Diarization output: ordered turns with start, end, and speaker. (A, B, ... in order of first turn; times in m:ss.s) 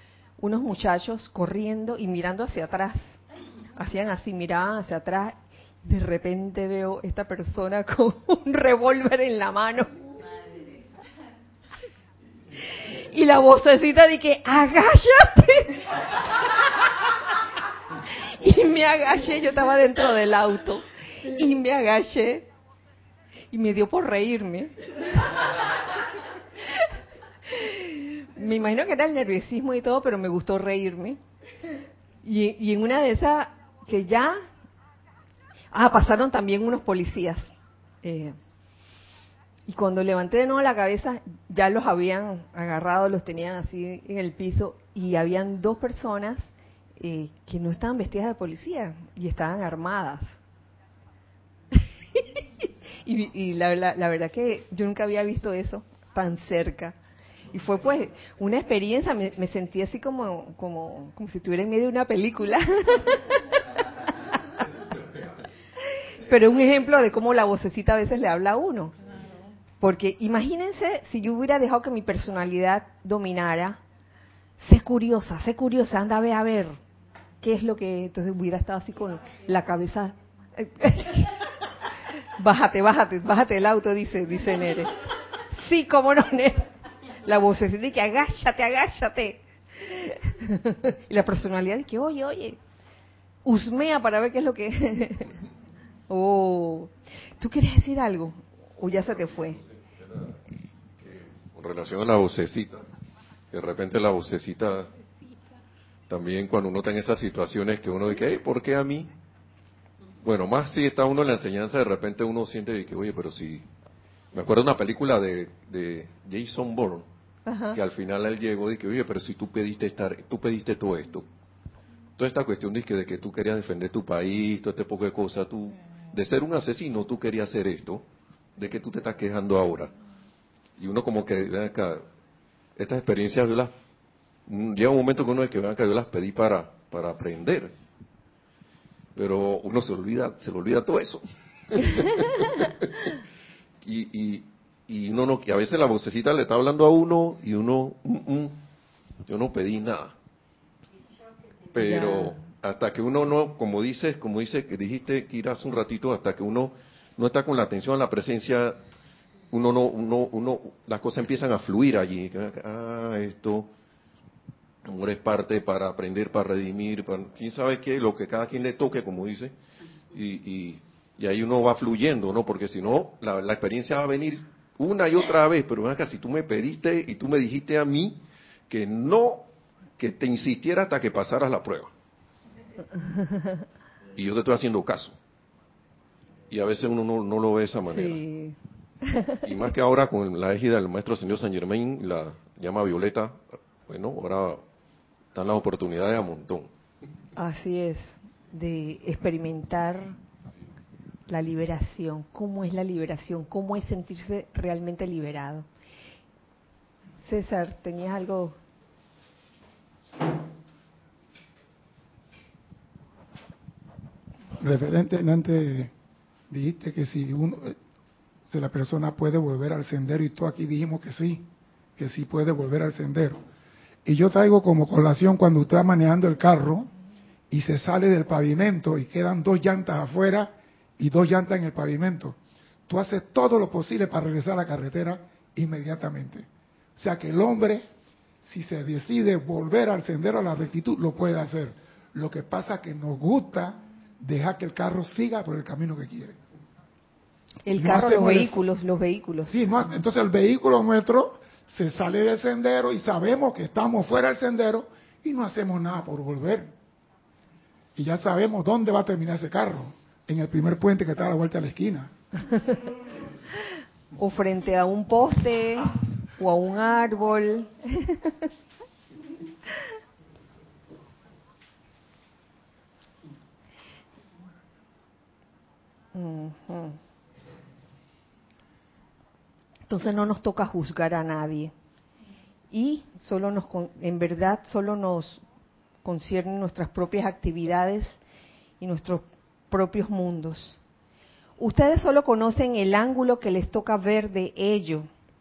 0:00.4-0:03.2 A
0:03.7-0:09.9 A
0:12.8-0:15.9 A
0:18.2-0:22.5 A
0:23.5-0:24.7 A
0:27.5-0:31.2 A
0:32.2-0:34.4 A
0:35.7-0:38.4 A
0:39.7-0:50.4 A
0:53.0-0:56.9 A
0:57.5-1:03.6 A
1:06.2-1:08.9 A
1:09.8-1:13.8 A
1:14.6-1:16.8 A
1:17.4-1:21.4 A
1:22.4-1:26.7 A
1:27.2-1:32.6 A
1:33.4-1:35.4 A
1:36.1-1:39.6 A
1:41.0-1:42.8 B
1:43.5-1:44.9 B
1:46.1-1:49.1 B
1:50.2-1:53.6 B
1:54.3-1:57.0 B
1:57.5-1:57.8 A
1:57.7-2:01.2 B
2:02.2-2:08.0 B
2:08.6-2:09.9 B
2:10.8-2:12.0 B
2:12.8-2:13.7 B
2:14.5-2:17.7 B
2:19.1-2:23.0 B
2:23.8-2:28.6 B
2:29.3-2:30.1 B
2:31.7-2:38.8 B
2:31.8-2:32.4 A
2:39.5-2:43.7 B
2:44.8-2:49.5 B
2:50.1-2:59.5 B
3:00.0-3:01.9 B
3:04.2-3:05.2 B
3:06.5-3:08.2 B
3:07.9-3:09.4 A
3:09.4-3:14.6 B
3:15.3-3:16.7 B
3:17.4-3:20.2 A
3:21.3-3:25.6 A
3:27.2-3:28.6 A
3:34.6-3:35.9 C
3:36.5-3:37.8 C
3:38.5-3:43.4 C
3:44.0-3:46.9 C
3:47.5-3:52.4 C
3:52.9-3:57.8 C
3:58.4-4:06.4 C
4:07.6-4:09.5 A
4:07.8-4:08.5 C
4:09.5-4:16.7 C
4:18.0-4:22.1 C
4:24.2-4:28.3 A
4:36.1-4:37.0 A
4:39.9-4:41.7 A
4:42.7-4:45.4 A
4:46.0-4:48.2 A
4:48.8-4:50.8 A
4:51.6-4:55.1 A